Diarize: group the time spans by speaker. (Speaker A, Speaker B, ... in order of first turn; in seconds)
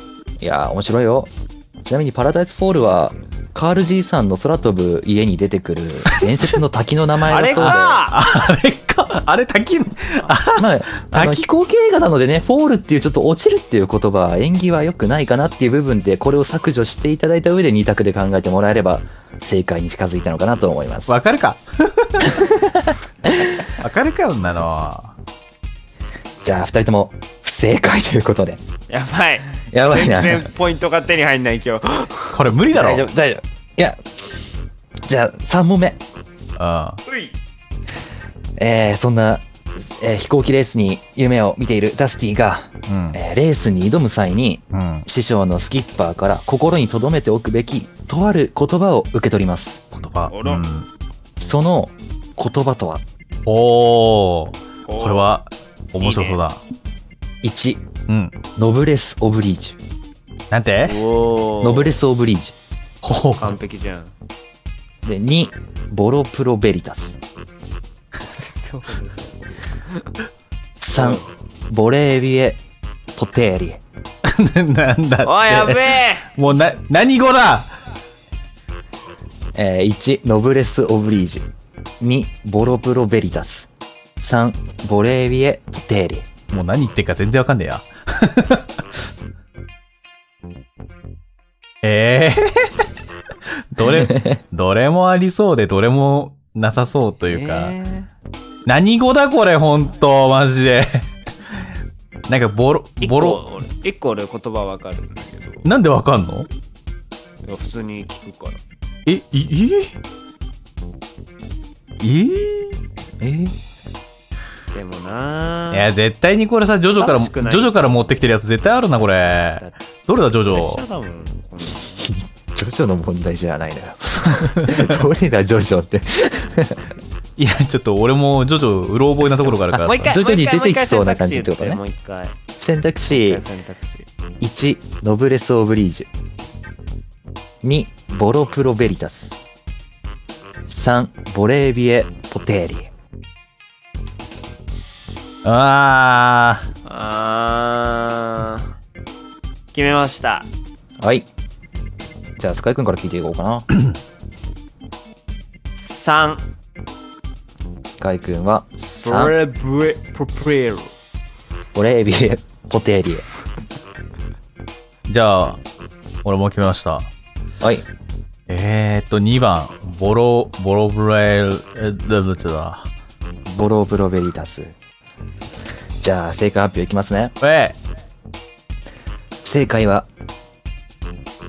Speaker A: 0.4-1.3, 1.8-8.0, 10.6-21.2, 22.2-23.6, 26.4-28.6, 29.7-30.5, 32.7-34.3, 35.0-36.0, 38.6-49.8, 51.4-53.0, 57.4-57.9, 58.5-59.8, 61.6-62.5, 65.0-67.2, 70.8-72.6, 73.1-73.8, 79.5-81.5, 82.0-83.7, 84.2-86.3, 93.8-94.4, 113.2-113.6, 122.0-126.8, 129.7-131.8, 132.6-133.4, 134.4-136.1, 137.6-139.4, 140.7-142.9, 151.0-151.3, 152.4-153.7, 158.0-159.3, 161.7-163.2, 167.6-167.8, 173.4-174.7, 176.0-177.3, 179.4-180.1
Speaker B: 6.1-6.5, 7.5-11.4, 21.1-22.3, 23.8-25.1, 32.3-33.1, 36.6-37.0, 42.9-43.2, 44.7-45.0, 49.9-50.9, 53.5-56.6, 58.1-58.4, 60.5-61.0, 63.0-63.6, 74.2-77.7, 86.5-88.7, 91.8-92.7, 93.7-97.7, 98.7-101.0, 102.3-103.4, 105.6-106.5, 109.0-109.9, 112.0-112.8, 115.7-120.8, 124.6-124.8, 127.4-130.2, 145.4-146.7, 165.1-165.6, 166.2-167.1, 168.5-172.9, 177.4-177.8
Speaker C: 7.3-8.2, 28.9-32.4, 37.0-37.4, 50.3-50.6, 54.9-55.3, 56.0-56.4, 60.8-62.0, 63.4-64.1, 68.2-70.1, 70.9-71.3, 75.2-76.4, 97.2-98.1, 103.0-105.7, 107.4-108.6, 114.7-115.9, 117.0-117.8, 120.5-122.1, 129.8-132.3, 133.1-134.1, 146.8-148.7, 149.7-150.5, 155.7-156.4, 159.0-160.9